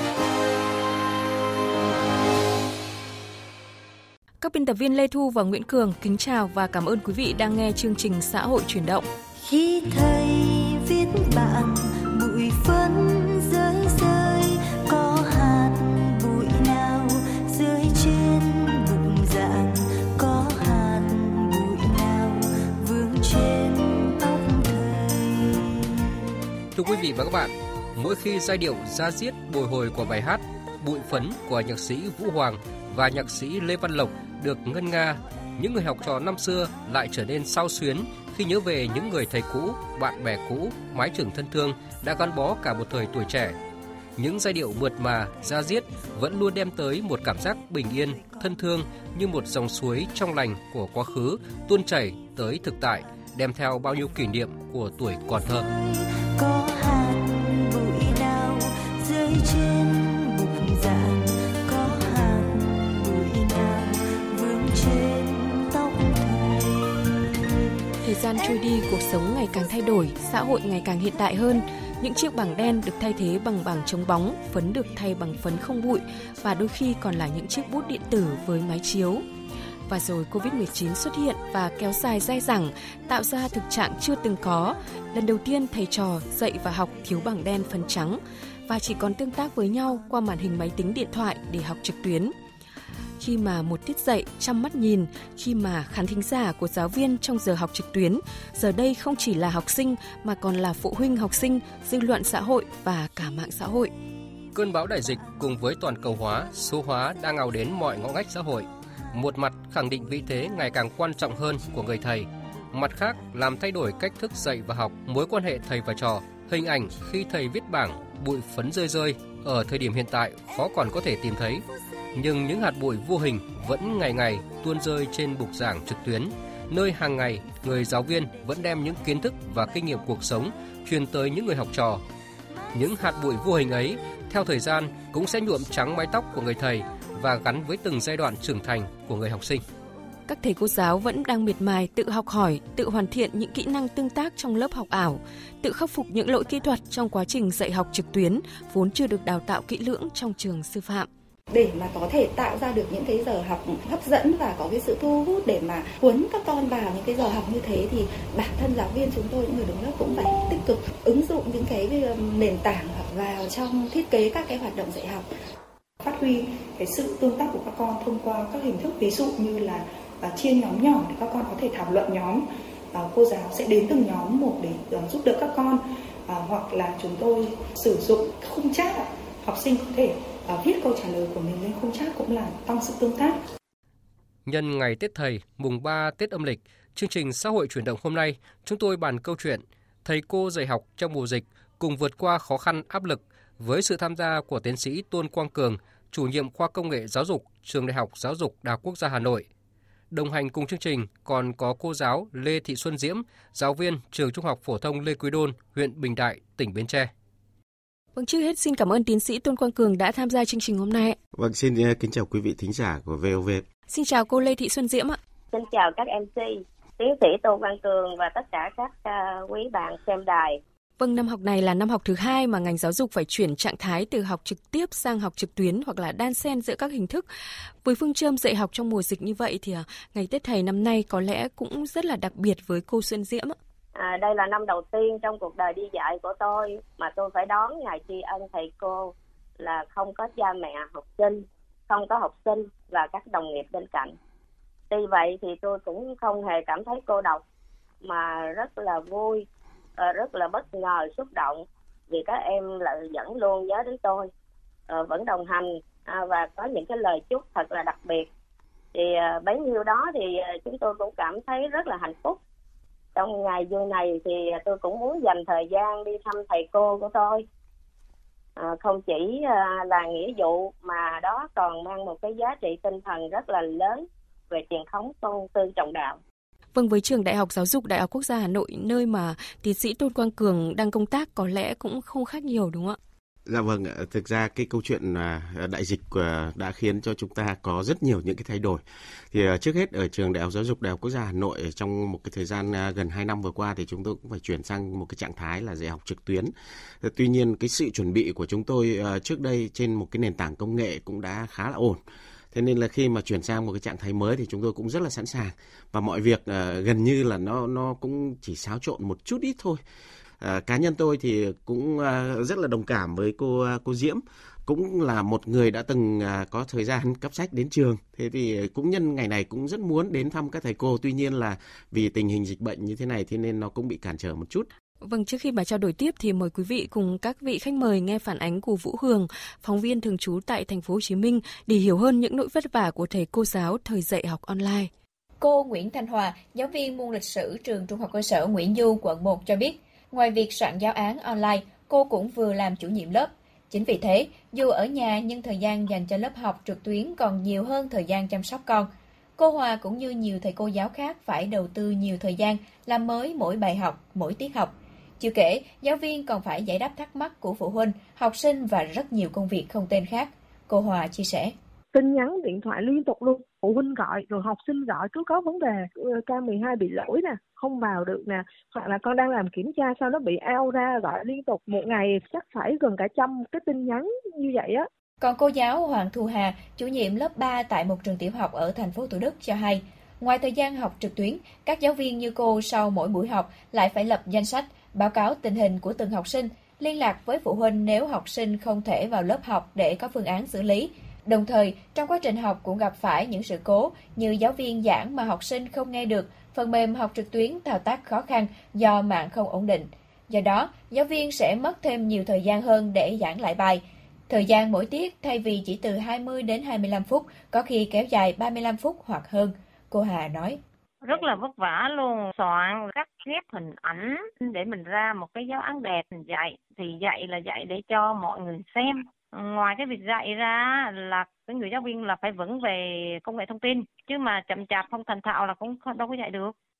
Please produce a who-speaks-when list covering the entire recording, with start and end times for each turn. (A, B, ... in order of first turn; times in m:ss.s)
0:04.4-0:09.1 A
0:09.4-0:25.8 B
0:26.7-0:43.6 C
0:44.2-0:55.7 C
0:55.5-1:07.5 B
1:08.0-1:19.2 A
1:19.9-1:32.3 A
1:33.2-1:43.9 A
1:44.6-2:12.0 C
2:12.7-2:19.6 C
2:20.3-2:31.1 A
2:31.5-2:45.3 D
2:46.0-2:52.4 E
2:53.0-2:55.8 E
2:56.3-3:03.4 E
3:04.5-3:19.5 C
3:20.1-3:27.1 C
3:28.2-3:31.2 A
3:31.3-3:33.6 F
3:33.9-3:35.2 A
3:35.5-3:40.6 G
3:41.0-3:47.3 A
3:47.8-3:53.6 A
3:54.0-4:04.2 G
4:04.9-4:07.4 G
4:08.0-4:09.5 G
4:10.0-4:14.3 G
4:14.9-4:18.3 G
4:18.9-4:22.4 G
4:23.2-4:27.4 G
4:28.6-4:36.2 G
4:36.8-4:43.0 A
4:43.5-5:02.0 F
5:02.5-5:09.8 F
5:10.4-5:24.7 F
5:25.0-5:34.9 A
5:35.4-6:01.5 H
6:01.9-6:14.9 I
6:15.2-6:50.6 H
6:51.0-7:06.5 J